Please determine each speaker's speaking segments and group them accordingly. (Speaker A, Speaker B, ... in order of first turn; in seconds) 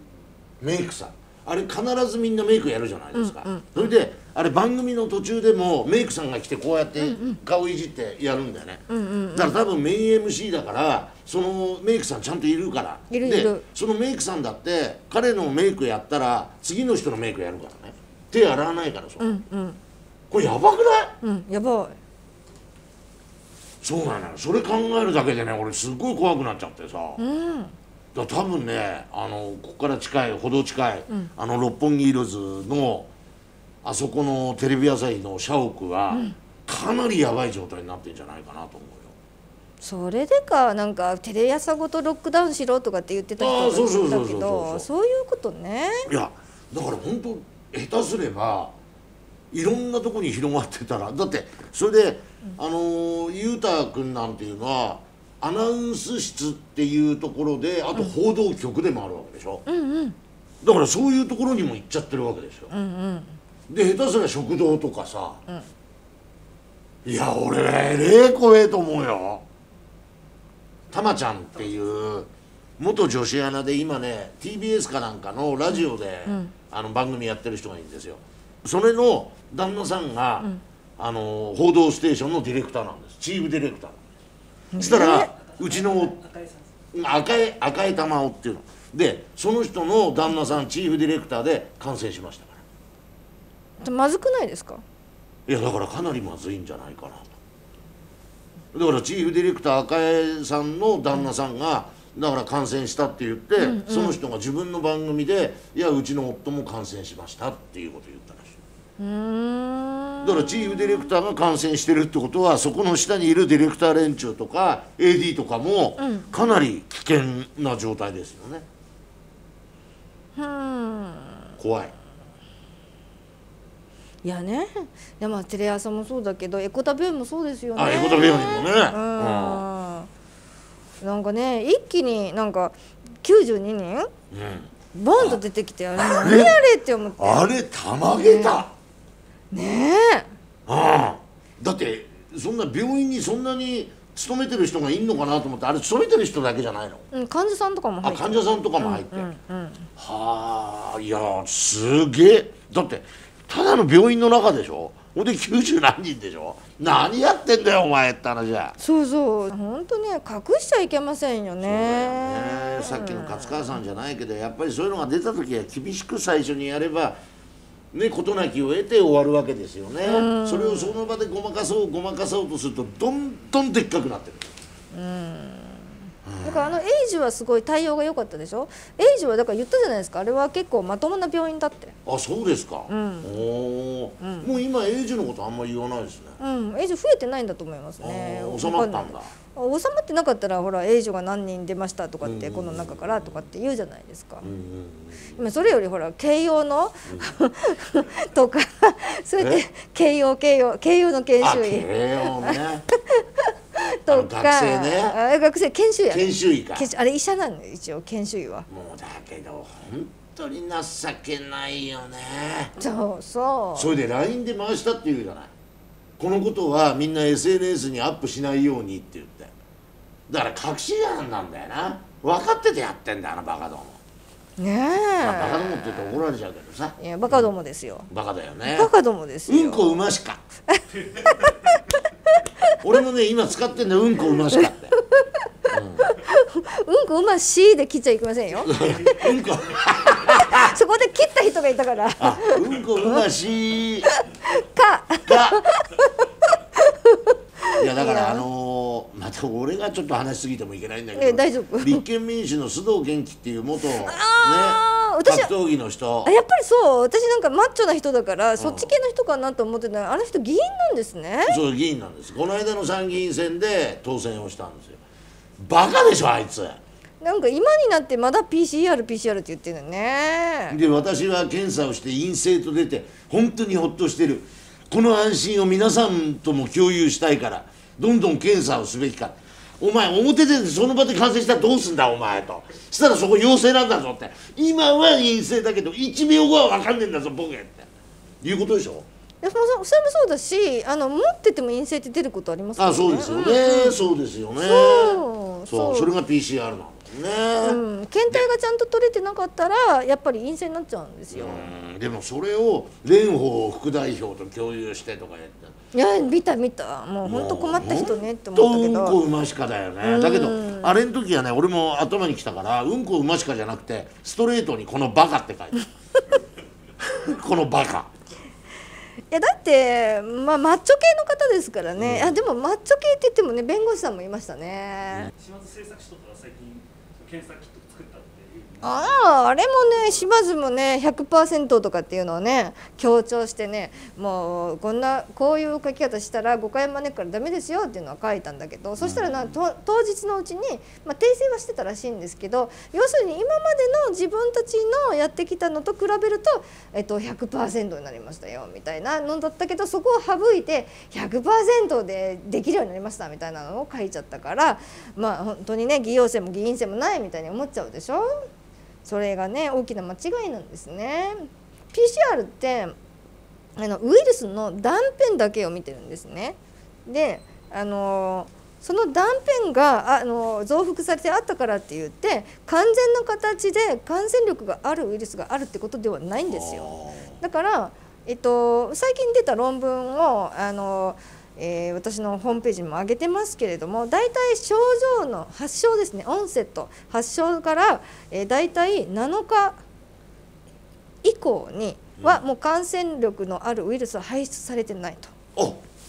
Speaker A: 0.6-19.4, 20.3-21.2, 23.8-27.2, 28.1-33.1, 33.8-39.1, 43.4-44.9, 46.1-48.7, 49.5-59.6, 60.6-62.7, 63.7-65.4, 67.0-69.4, 70.9-84.0, 84.8-86.2, 86.9-92.6, 95.5-97.3, 98.7-108.6, 110.2-118.6, 121.6-121.9, 127.8-129.6, 134.3-135.4, 135.9-136.6, 137.2-138.7, 140.7-147.1, 148.0-149.3, 150.0-158.8, 161.6-167.2, 167.9-174.5, 176.2-176.8, 182.1-186.4, 188.0-189.3, 192.2-193.4, 194.4-195.4, 197.1-197.3, 201.4-202.8, 204.1-205.2, 206.1-206.9, 208.7-212.7, 213.8-215.5, 216.2-219.5, 220.3-224.0, 225.2-227.5, 228.1-228.9, 229.5-230.4, 232.8-234.9, 235.7-236.1, 238.6-240.7, 242.2-244.1, 245.3-245.6, 247.8-256.3, 258.6-258.9, 261.5-265.0, 265.6-266.8, 270.7-287.9, 288.4-289.1, 292.8-298.5, 301.3-305.8, 307.2-315.8, 317.0-318.1, 322.0-322.4, 339.0-339.6, 376.4-377.4
Speaker B: 3.1-3.7, 7.0-7.4, 8.9-9.5, 13.1-13.6, 19.2-19.8, 21.2-22.0, 27.2-27.7, 36.1-36.4, 39.8-46.1, 59.6-60.2, 62.7-63.4, 75.7-76.5, 84.7-85.3, 93.8-94.8, 103.6-104.2, 109.0-111.1, 116.0-116.4, 120.3-121.5, 124.2-130.1, 131.0-134.1, 134.9-137.4, 138.2-138.6, 139.5-140.3, 147.1-149.9, 158.8-163.8, 170.0-171.0, 174.9-181.9, 182.9-183.3, 184.2-184.5, 186.4-194.5, 195.4-202.6, 203.1-208.7, 212.8-213.9, 224.6-226.2, 227.0-228.1, 228.6-230.0, 230.7-232.7, 234.3-239.3, 240.3-243.2, 244.1-248.4, 251.1-252.0, 254.0-255.5, 256.2-261.6, 267.2-270.8, 289.4-294.0, 294.6-296.1, 297.6-301.7, 305.9-309.2, 310.0-311.0, 319.3-325.3, 328.8-358.3, 359.0-362.9, 363.8-389.8, 391.2-395.3
Speaker C: 325.4-328.8